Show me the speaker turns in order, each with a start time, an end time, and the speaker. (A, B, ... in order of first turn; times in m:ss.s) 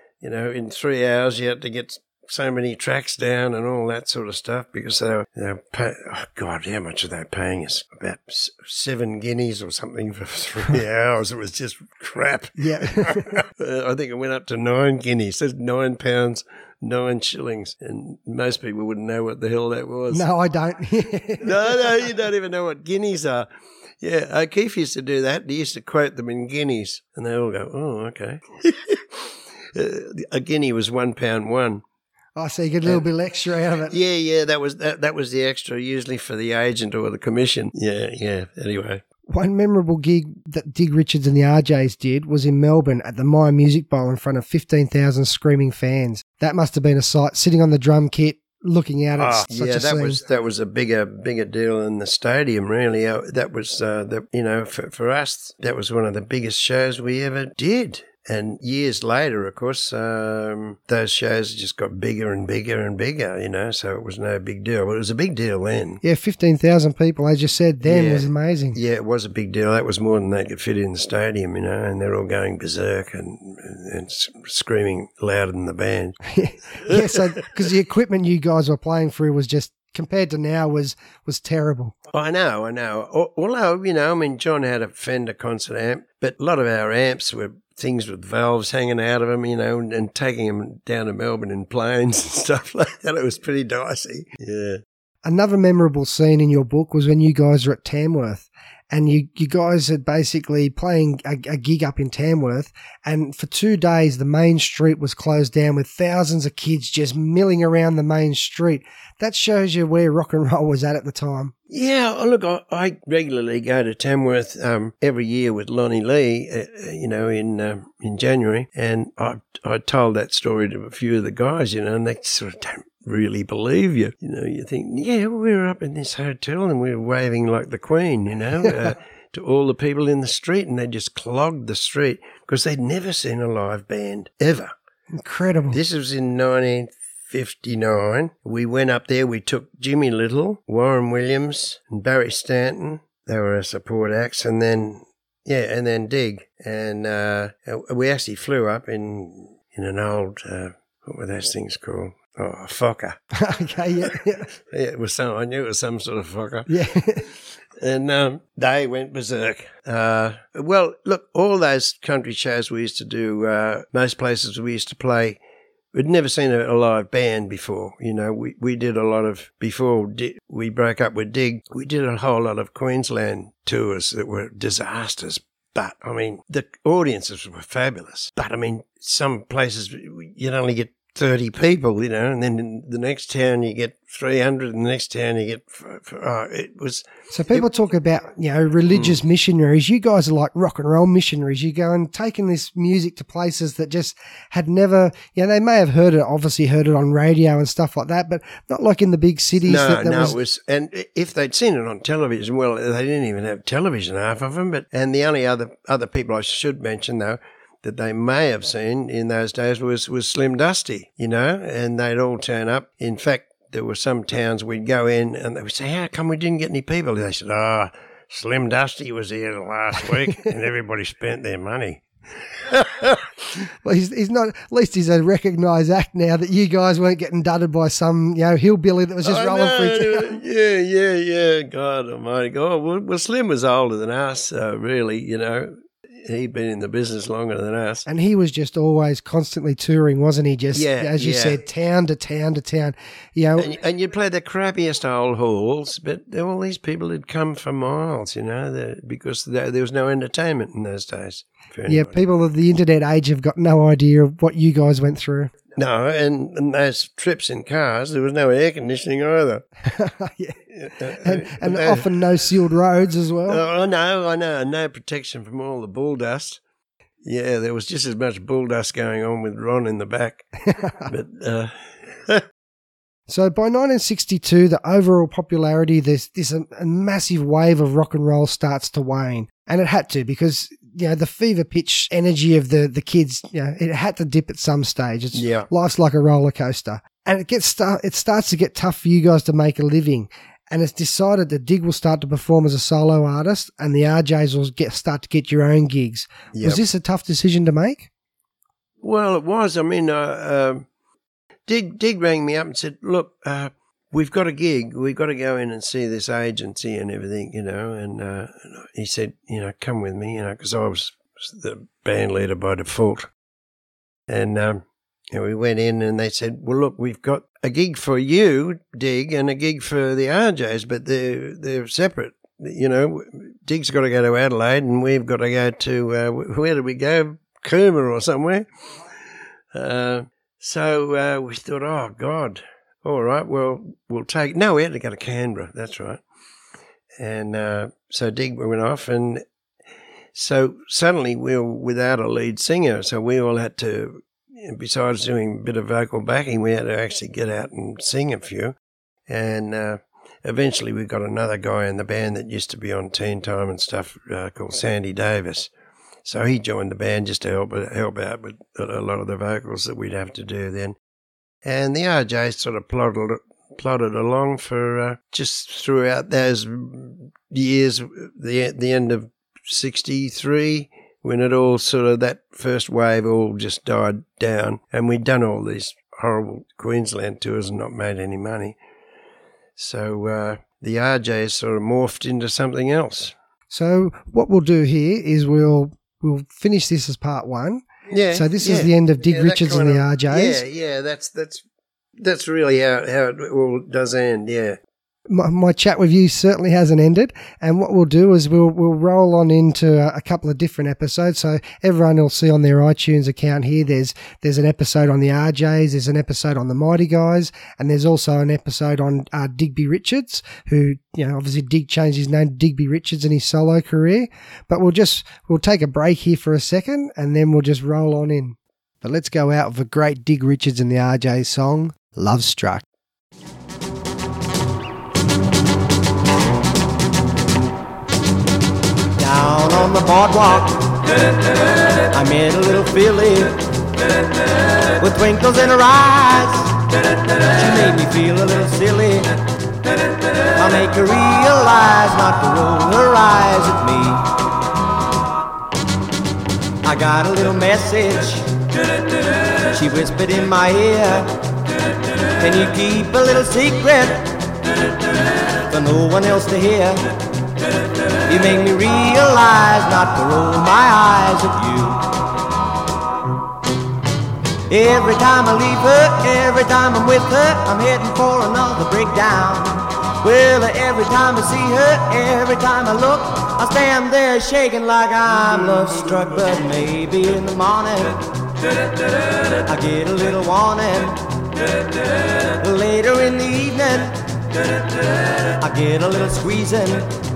0:00.2-0:20.2 A
0:12.6-0:13.3 B
0:20.1-0:21.5 B
0:21.4-0:23.5 A
0:24.0-0:31.8 A
0:32.4-0:34.0 B
0:33.9-0:39.0 A
0:39.3-0:50.2 B
0:49.2-1:06.0 A
1:06.0-1:08.8 B
1:07.8-1:16.2 A
1:16.3-1:21.9 B
1:16.8-1:17.3 A
1:22.1-1:34.8 A
1:35.2-1:51.5 B
1:51.7-2:14.7 A
2:15.1-2:15.8 B
2:15.7-2:33.2 A
2:33.3-2:34.5 B
2:34.0-2:45.4 A
2:36.7-2:37.2 B
2:45.9-3:07.6 A
3:07.3-3:20.4 B
3:08.9-3:09.2 A
3:19.6-3:43.3 A
3:43.8-3:50.3 B
3:49.2-3:58.0 A
3:58.0-4:03.7 B
4:00.7-4:01.6 A
4:03.6-4:12.2 A
4:11.9-4:15.5 B
4:15.8-4:19.7 A
4:19.9-4:20.6 B
4:20.7-4:22.1 A
4:21.2-4:23.6 B
4:23.5-4:26.6 A
4:27.2-4:30.4 A
4:30.7-4:31.1 B
4:31.0-4:32.4 A
4:33.3-4:58.1 B
4:45.3-4:45.7 A
4:56.5-4:56.8 A
4:59.0-5:00.8 A
5:01.7-5:13.3 A
5:14.3-5:28.7 A
5:29.7-5:36.2 A
5:37.2-5:39.4 A
5:40.3-5:48.8 A
5:49.3-5:55.7 A
5:56.2-6:01.0 A
6:01.6-6:18.8 A
6:19.8-6:23.3 A
6:23.7-6:30.6 B
6:28.1-6:31.6 A
6:32.2-6:34.8 A
6:35.3-7:02.8 B
7:09.2-7:10.9 C
7:12.1-7:13.6 C
7:15.0-7:16.8 C
7:17.5-7:19.3 C
7:20.5-7:24.3 C
7:26.8-7:28.5 C
7:29.7-7:31.3 C
7:32.4-7:34.4 C
7:35.7-7:37.1 C
7:38.3-7:42.1 C
7:44.7-7:58.2 C
7:59.6-8:01.2 C
8:02.6-8:04.2 C
8:05.6-8:07.1 C